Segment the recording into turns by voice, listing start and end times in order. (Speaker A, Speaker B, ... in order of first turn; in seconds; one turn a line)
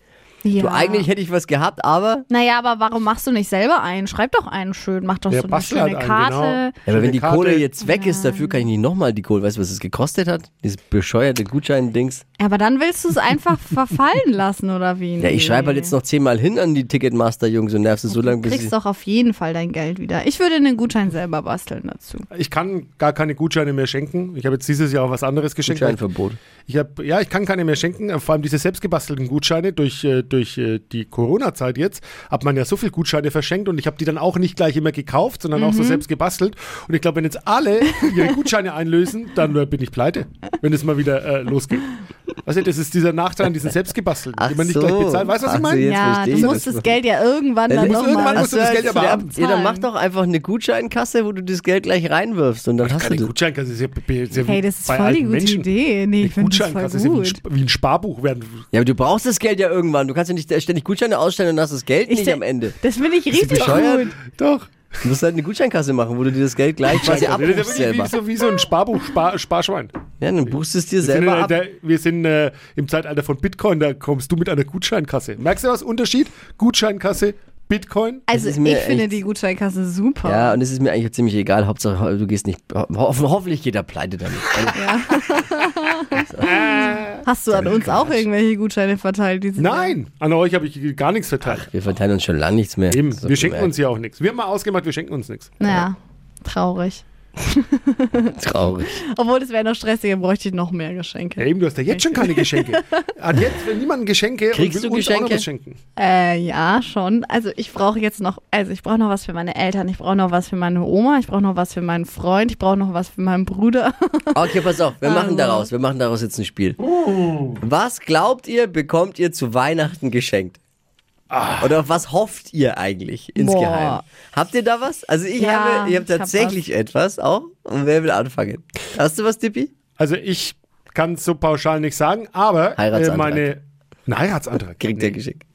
Speaker A: 0.4-1.1
Speaker B: 0.6-2.2
Speaker A: 2.3-6.8
Speaker C: 5.3-7.7
Speaker B: 6.9-12.2
Speaker A: 7.8-8.7
Speaker A: 12.4-15.9
Speaker B: 15.2-18.7
Speaker A: 18.1-22.2
Speaker C: 22.3-26.0
Speaker B: 25.6-26.4
Speaker C: 26.7-46.6
Speaker A: 35.5-36.0
Speaker B: 44.4-46.9
Speaker A: 45.9-49.9
Speaker C: 47.7-49.3
Speaker B: 47.7-53.3
Speaker C: 52.8-58.6
Speaker A: 54.4-57.4
Speaker B: 58.7-62.8
Speaker A: 62.1-64.2
Speaker C: 63.3-65.0
Speaker B: 63.4-64.1
Speaker B: 65.0-68.2
Speaker C: 66.9-69.9
Speaker B: 70.2-71.5
Speaker C: 71.0-78.2
Speaker A: 78.3-80.6
Speaker B: 78.3-79.2
Speaker B: 80.2-84.9
Speaker A: 84.7-89.9
Speaker B: 86.1-86.5
Speaker C: 86.4-87.3
Speaker B: 87.5-88.2
Speaker C: 89.6-91.7
Speaker B: 91.4-93.7
Speaker C: 92.9-95.6
Speaker A: 95.6-98.4
Speaker B: 98.4-99.0
Speaker A: 98.9-103.1
Speaker C: 101.4-105.8
Speaker B: 104.5-105.5
Speaker A: 106.0-115.7
Speaker B: 114.3-116.8
Speaker C: 116.9-117.6
Speaker B: 117.6-120.6
Speaker C: 121.3-121.8
Speaker B: 121.6-129.7
Speaker A: 123.3-124.0
Speaker A: 125.4-126.6
Speaker C: 130.0-135.2
Speaker B: 132.8-133.5
Speaker B: 134.8-135.4